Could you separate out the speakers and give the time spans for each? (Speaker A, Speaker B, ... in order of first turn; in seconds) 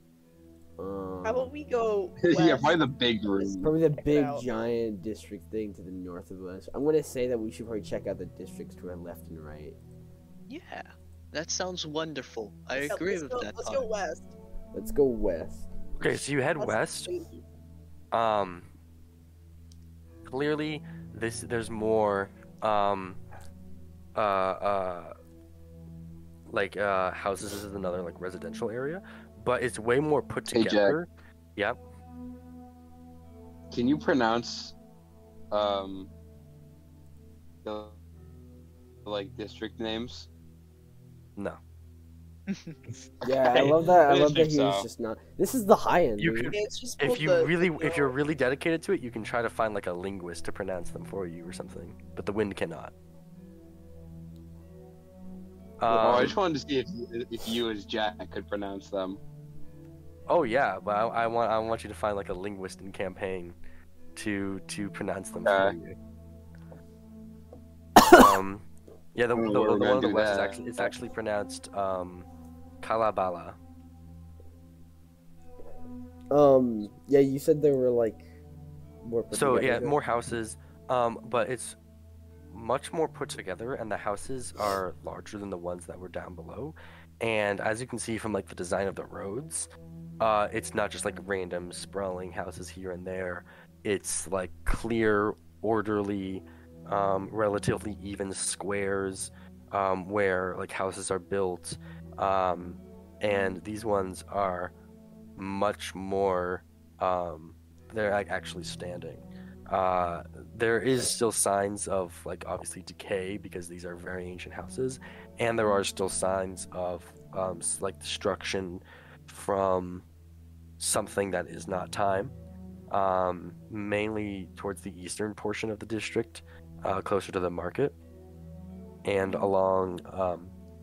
Speaker A: 0.8-1.5, 3.6-9.8, 14.7-15.7, 43.2-46.5, 76.3-78.3, 79.0-80.0
Speaker B: 1.2-4.7, 12.8-14.3, 16.6-17.4, 46.5-48.1
Speaker C: 2.2-3.7, 30.5-31.0, 33.7-34.8, 35.5-36.1, 37.6-38.0, 39.0-40.3, 43.2-44.9, 55.9-59.2, 65.4-65.7, 69.3-71.0
Speaker D: 10.5-13.9, 42.5-42.8
Speaker E: 16.0-17.1, 18.1-18.7, 20.3-23.2, 24.1-25.1, 26.5-31.8, 46.2-52.9, 55.8-56.4, 60.3-63.6, 64.1-66.0, 68.1-72.3, 72.8-73.6, 79.3-81.8, 82.5-89.7, 90.2-104.7, 105.4-120.0, 120.8-122.3, 122.9-127.9, 129.0-130.5